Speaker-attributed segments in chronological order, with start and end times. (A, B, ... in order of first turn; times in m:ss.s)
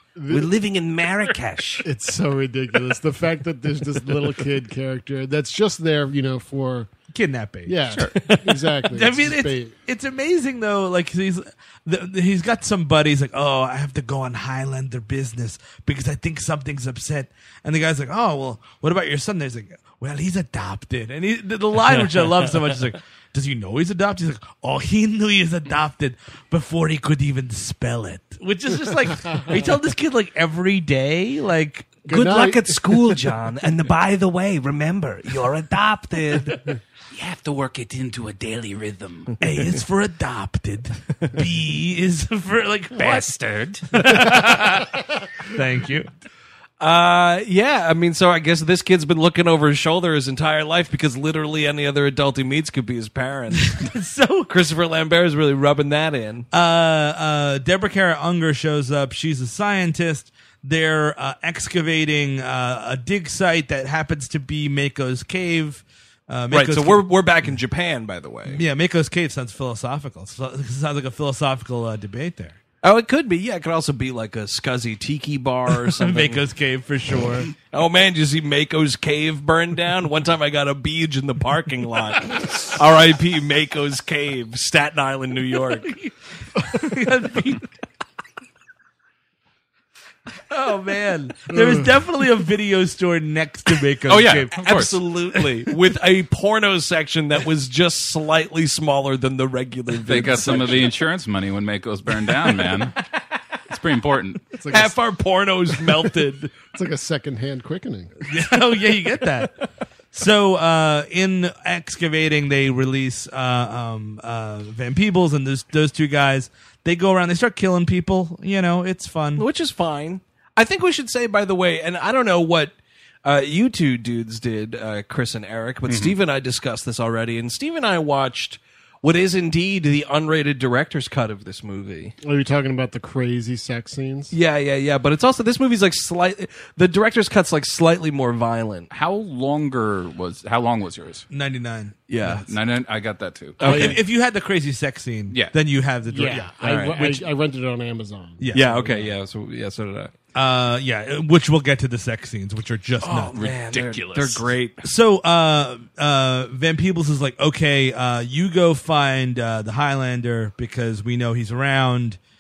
0:00.2-0:00.5 A
0:00.3-0:01.9 B
0:01.8-0:06.9 A
0:07.1-0:32.0 C
0:07.7-0:09.7 A
0:32.1-0:33.3 A
0:32.1-0:36.7 B
0:37.1-0:39.3 D
0:39.4-0:43.3 C
0:43.0-0:43.9 D
0:43.9-0:46.1 C
0:46.8-0:53.8 B
0:53.5-0:54.5 C
0:54.5-0:56.5 B
0:56.5-1:07.1 C
1:06.5-1:08.6 B
1:08.5-1:12.6 C
1:12.8-1:16.4 B
1:15.8-1:17.5 C
1:17.6-1:25.9 B
1:25.8-1:27.7 C
1:30.5-1:34.6 C
1:34.1-1:35.0 D
1:34.6-1:41.0 B
1:40.0-1:43.0 D
1:43.7-1:44.5 D
1:44.6-1:45.0 A
1:44.7-1:46.5 B
1:45.9-1:48.2 A
1:48.3-1:59.5 C
1:59.4-2:12.1 B
2:05.9-2:06.2 D
2:12.2-2:14.3 A
2:14.3-2:18.9 B
2:18.9-2:21.2 D
2:21.3-2:22.4 C
2:22.1-2:22.5 B
2:22.5-2:24.0 D
2:23.6-2:24.0 B
2:23.6-2:27.2 C
2:23.6-2:24.0 A
2:26.1-2:29.1 A
2:26.6-2:27.1 B
2:28.4-2:28.7 C
2:28.5-2:30.1 B
2:30.3-2:33.4 C
2:33.0-2:34.9 B
2:33.3-2:34.4 D
2:34.8-2:42.2 C